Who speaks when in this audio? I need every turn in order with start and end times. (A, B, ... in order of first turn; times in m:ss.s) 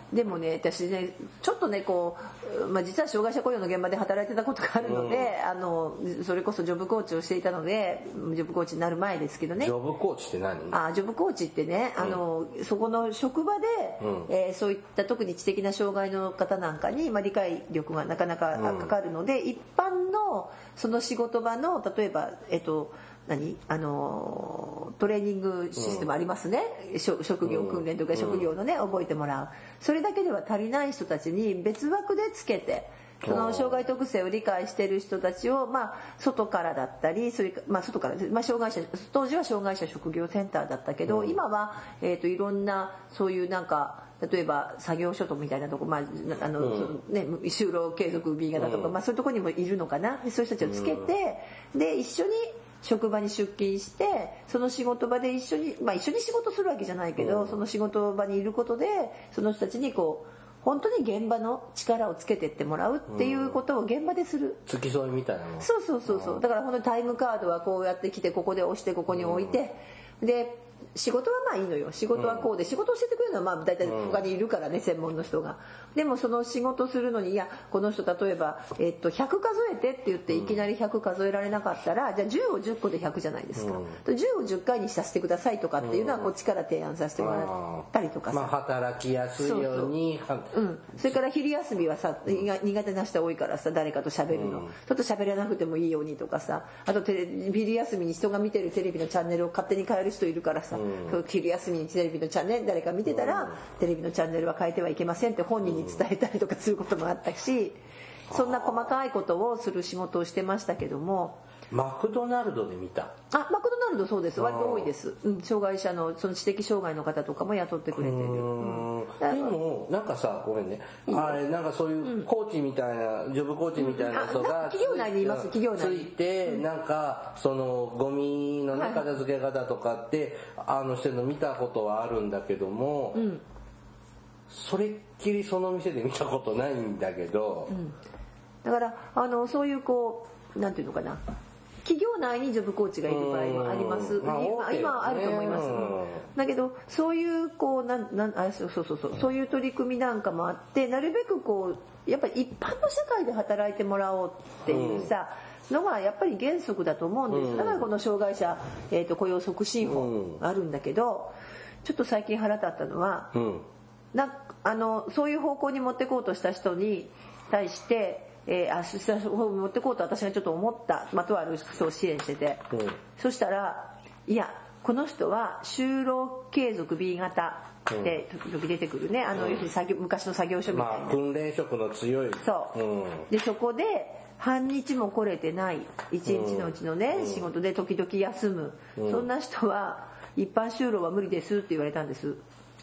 0:00.1-0:09.7 A
0:04.8-0:05.3 B
0:09.6-0:10.8 B
0:10.7-1:04.6 A
0:14.0-0:14.3 B
0:18.5-0:18.9 B
0:25.8-0:26.1 B
0:27.4-0:28.4 B
0:33.2-0:33.8 B
0:41.0-0:41.4 B
0:46.6-0:46.9 B
0:48.6-0:48.9 B
0:50.6-0:51.1 B
0:57.2-0:57.6 B
1:03.1-1:03.6 B
1:04.7-1:06.4 B
1:05.6-1:28.5 A
1:09.1-1:09.6 B
1:12.1-1:12.4 B
1:13.8-1:14.2 B
1:23.6-1:24.0 B
1:25.8-1:26.3 B
1:27.2-1:30.5 B
1:29.4-1:29.9 A
1:30.5-1:47.8 A
1:34.3-1:34.7 B
1:40.7-1:41.2 B
1:43.0-1:43.6 B
1:45.6-1:46.0 B
1:48.3-1:48.9 B
1:48.3-1:51.4 A
1:51.7-1:53.1 B
1:53.3-1:59.5 A
1:54.4-1:54.9 B
1:57.9-2:13.2 B
2:01.1-2:01.4 A
2:02.0-2:02.3 A
2:03.8-2:06.6 A
2:08.7-2:09.0 A
2:13.1-2:13.4 A
2:14.5-2:17.7 B
2:17.7-2:18.0 A
2:18.6-2:21.2 A
2:21.8-2:43.3 A
2:23.1-2:26.3 B
2:34.7-2:35.1 B
2:37.3-2:37.9 B
2:39.9-2:40.4 B
2:43.3-2:43.6 B
2:44.1-2:52.6 A
2:52.7-2:53.0 B
2:53.2-3:01.2 A
2:59.3-2:59.6 B
3:00.7-3:03.3 B
3:02.4-3:02.8 A
3:03.3-3:12.4 A
3:06.2-3:07.4 B
3:09.0-3:09.3 B